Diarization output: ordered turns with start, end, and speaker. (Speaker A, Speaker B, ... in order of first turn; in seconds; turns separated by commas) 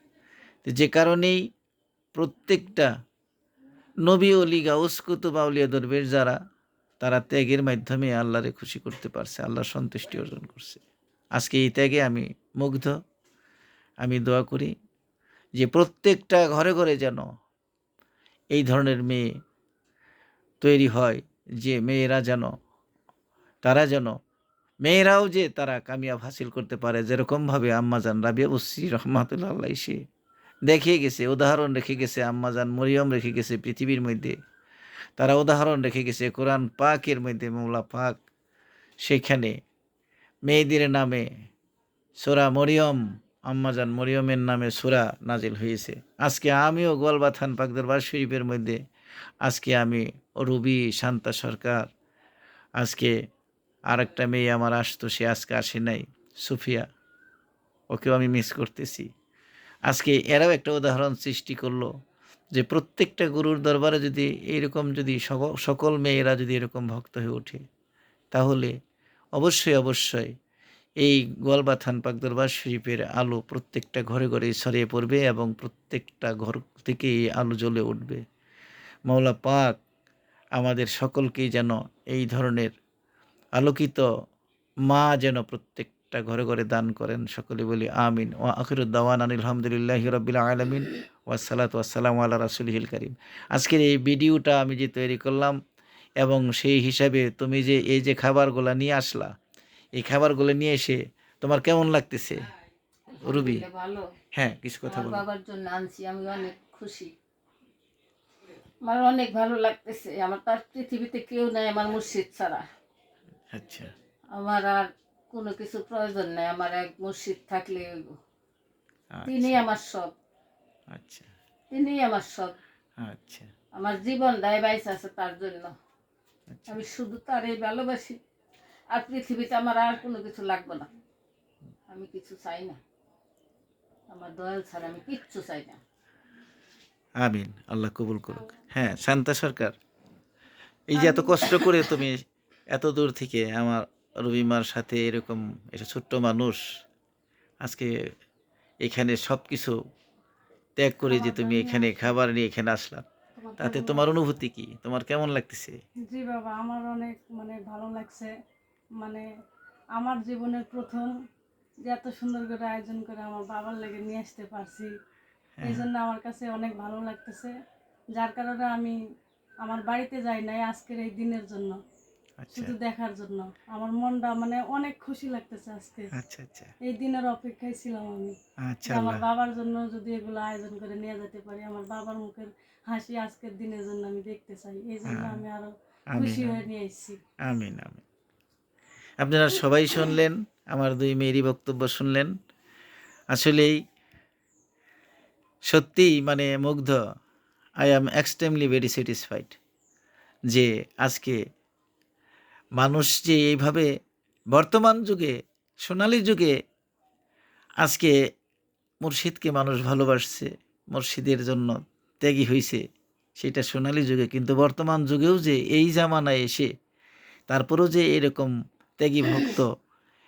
Speaker A: 0.7-1.4, Speaker A: 2.2-2.9, Speaker A: 4.1-6.4, Speaker A: 7.0-10.8, Speaker A: 11.4-12.9, Speaker A: 14.0-14.7, Speaker A: 15.6-17.3, Speaker A: 18.5-19.2, Speaker A: 20.6-22.5, Speaker A: 23.6-24.1, Speaker A: 24.8-30.0, Speaker A: 30.7-34.4, Speaker A: 35.2-38.2, Speaker A: 39.0-39.6, Speaker A: 40.5-41.3, Speaker A: 42.2-48.8, Speaker A: 49.4-51.9, Speaker A: 52.8-53.1, Speaker A: 53.9-56.9, Speaker A: 57.9-59.1, Speaker A: 59.9-61.9, Speaker A: 62.6-67.6, Speaker A: 68.3-68.7, Speaker A: 69.4-70.3, Speaker A: 71.0-78.2, Speaker A: 79.1-79.8, Speaker A: 80.6-82.7, Speaker A: 83.6-84.1, Speaker A: 84.9-95.6, Speaker A: 96.2-99.3, Speaker A: 100.0-102.5, Speaker B: 103.1-104.1, Speaker A: 103.2-103.6, Speaker A: 104.3-105.2, Speaker B: 104.9-107.1, Speaker B: 108.8-112.6, Speaker A: 113.5-113.9, Speaker B: 114.3-118.1, Speaker A: 119.2-119.6, Speaker B: 119.3-120.2, Speaker A: 120.9-121.3, Speaker B: 121.7-122.6, Speaker A: 123.0-123.5, Speaker B: 123.8-125.7, Speaker A: 126.5-126.8, Speaker B: 126.7-128.2, Speaker B: 128.9-130.9, Speaker B: 131.9-132.8, Speaker B: 134.1-135.8, Speaker A: 137.2-139.8, Speaker A: 140.9-146.6, Speaker B: 141.0-142.0, Speaker A: 147.6-147.9, Speaker A: 148.8-149.8, Speaker A: 150.8-153.1, Speaker C: 151.2-151.9, Speaker C: 153.4-154.0, Speaker A: 153.6-155.8, Speaker C: 156.1-158.3, Speaker C: 159.0-159.3, Speaker C: 160.0-161.1, Speaker C: 161.9-164.9, Speaker A: 165.6-165.9, Speaker C: 165.7-167.6, Speaker C: 168.2-169.0, Speaker C: 169.6-171.8, Speaker A: 172.4-172.8, Speaker C: 172.6-176.1, Speaker A: 176.1-176.7, Speaker C: 176.8-178.4, Speaker A: 178.7-179.2, Speaker C: 178.9-187.2, Speaker A: 185.1-185.4, Speaker A: 186.1-186.6, Speaker A: 187.5-188.1, Speaker A: 189.2-192.3, Speaker A: 193.3-193.8, Speaker A: 195.7-197.0, Speaker A: 197.8-199.6, Speaker A: 200.5-201.4, Speaker A: 202.8-203.9, Speaker A: 204.5-206.5, Speaker A: 207.8-208.1, Speaker A: 209.0-212.8, Speaker A: 213.4-216.7, Speaker A: 217.5-219.7